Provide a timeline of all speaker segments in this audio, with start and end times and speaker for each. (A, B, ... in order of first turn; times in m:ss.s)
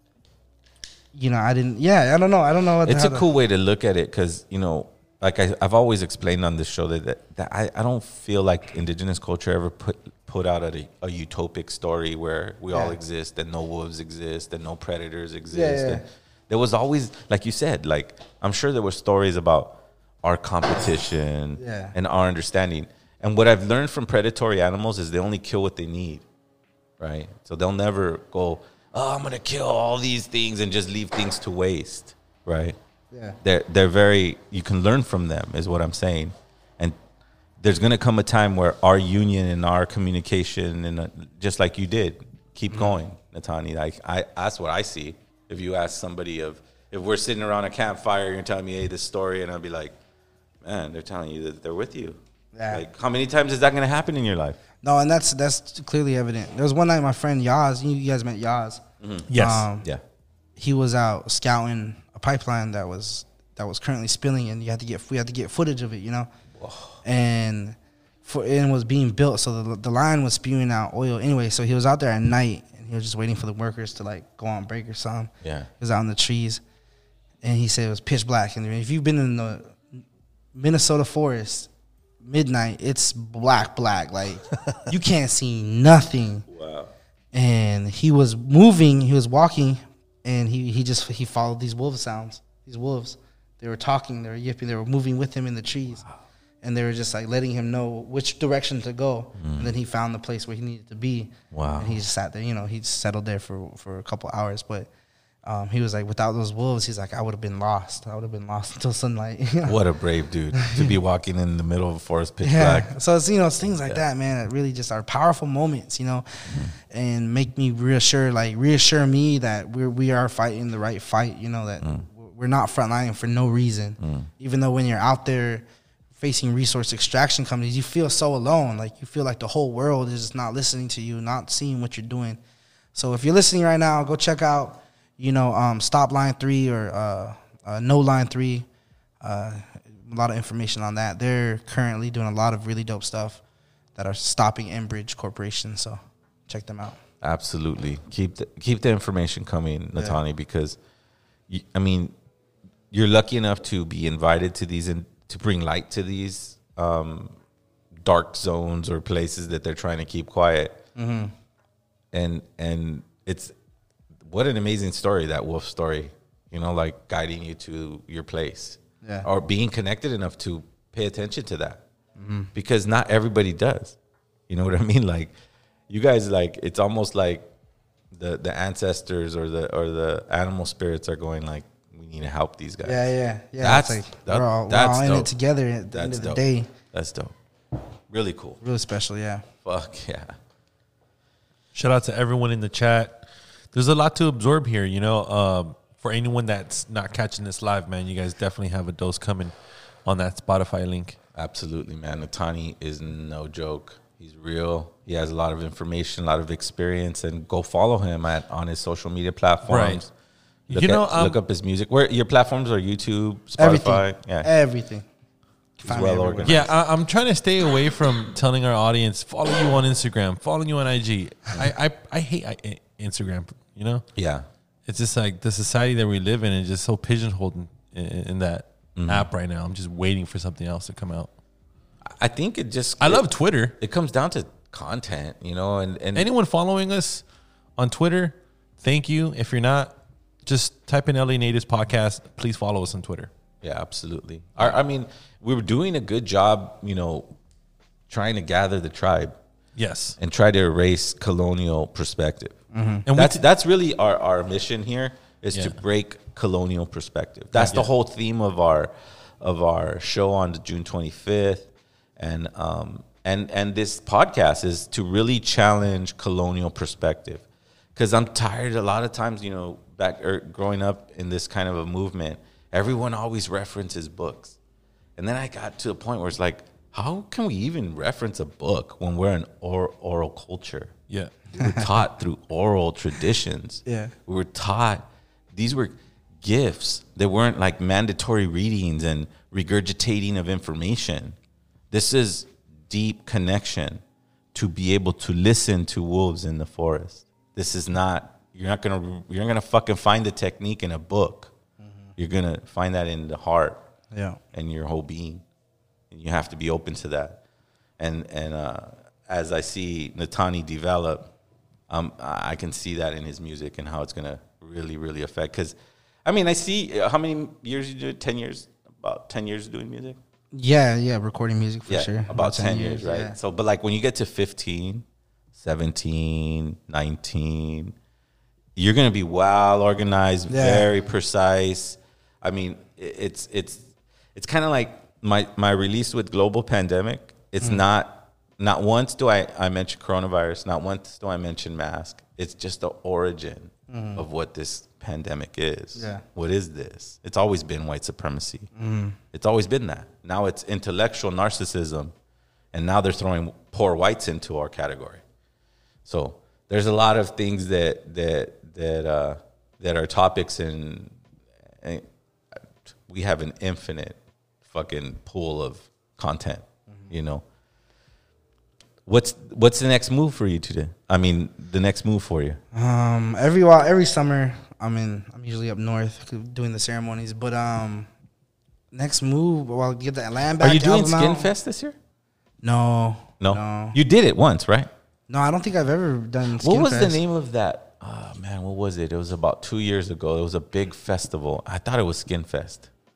0:01.1-0:03.3 A
0:02.8-0:26.2 B
0:12.7-0:13.0 A
0:15.5-0:16.0 A
0:21.6-0:21.9 A
0:27.0-0:32.8 B
0:33.1-0:33.4 A
0:33.4-0:37.0 B
0:37.6-0:49.9 B
0:50.6-0:54.6 B
0:52.5-0:52.8 A
0:54.8-0:59.9 A
0:59.0-1:00.0 B
0:59.3-0:59.7 C
1:00.6-1:06.3 A
1:06.6-1:07.0 B
1:07.0-1:16.6 A
1:15.4-1:15.7 B
1:17.4-1:20.0 A
1:20.5-1:21.7 A
1:22.2-1:26.4 A
1:26.5-1:26.9 B
1:27.3-1:36.0 A
1:36.6-1:44.9 A
1:39.4-1:39.7 B
1:41.5-1:42.0 B
1:45.4-1:49.8 A
1:49.6-1:52.9 B
1:50.6-1:50.9 A
1:52.4-2:05.6 A
1:56.5-1:56.7 B
2:01.8-2:02.0 B
2:04.0-2:04.3 B
2:06.2-2:12.4 A
2:12.9-2:18.7 A
2:19.2-2:23.4 A
2:23.9-2:27.0 A
2:27.2-2:30.8 B
2:31.5-2:32.1 B
2:32.9-2:37.4 B
2:38.0-2:40.8 B
2:40.9-2:41.3 A
2:42.1-2:43.5 B
2:44.2-2:51.8 B
2:49.0-2:49.3 A
2:52.2-2:52.5 A
2:52.5-2:54.0 B
2:54.5-2:55.3 B
2:55.9-2:57.5 B
2:58.1-3:05.3 B
3:02.8-3:06.7 A
3:05.9-3:07.3 B
3:08.1-3:08.6 B
3:08.6-3:09.4 A
3:09.6-3:10.4 B
3:11.7-3:19.5 C
3:20.0-3:21.2 C
3:21.3-3:30.1 B
3:29.7-3:30.0 C
3:30.7-3:31.4 C
3:30.7-3:34.5 B
3:33.6-3:35.1 A
3:35.8-3:36.7 A
3:35.8-3:36.7 B
3:36.4-3:44.1 C
3:44.1-3:44.4 B
3:44.9-3:51.3 C
3:49.0-3:49.3 B
3:52.0-3:56.3 B
3:53.0-3:53.8 C
3:56.1-3:57.2 C
3:57.8-3:59.9 C
4:00.4-4:03.3 C
4:03.6-4:07.3 B
4:08.1-4:09.3 B
4:09.8-4:10.2 C
4:10.2-4:12.6 B
4:12.7-4:13.1 A
4:13.1-4:13.4 C
4:13.1-4:34.6 B
4:17.6-4:17.9 C
4:35.2-4:40.9 B
4:41.1-4:41.3 C
4:41.5-4:51.4 B
4:41.6-4:41.9 A
4:43.8-4:44.1 A
4:51.9-4:54.0 B
4:54.5-5:01.5 B
5:01.8-5:02.1 A
5:02.2-5:03.8 B
5:04.1-5:04.4 A
5:04.5-5:05.4 B
5:06.1-5:07.4 B
5:08.0-5:11.3 B
5:11.9-5:20.2 B
5:20.5-5:23.4 A
5:21.9-5:27.9 B
5:28.8-5:48.7 B
5:30.5-5:30.9 A
5:43.9-5:44.2 A
5:46.0-5:46.2 A
5:48.7-5:49.2 A
5:49.3-5:52.1 B
5:52.7-5:55.2 B
5:56.0-6:01.1 B
6:01.8-6:07.4 B
6:06.9-6:07.1 A
6:09.0-6:12.6 B
6:12.7-6:18.1 A
6:18.9-6:21.5 A
6:20.6-6:22.0 B
6:22.6-6:24.0 A
6:23.4-6:24.9 B
6:25.3-6:27.2 A
6:26.6-6:32.9 B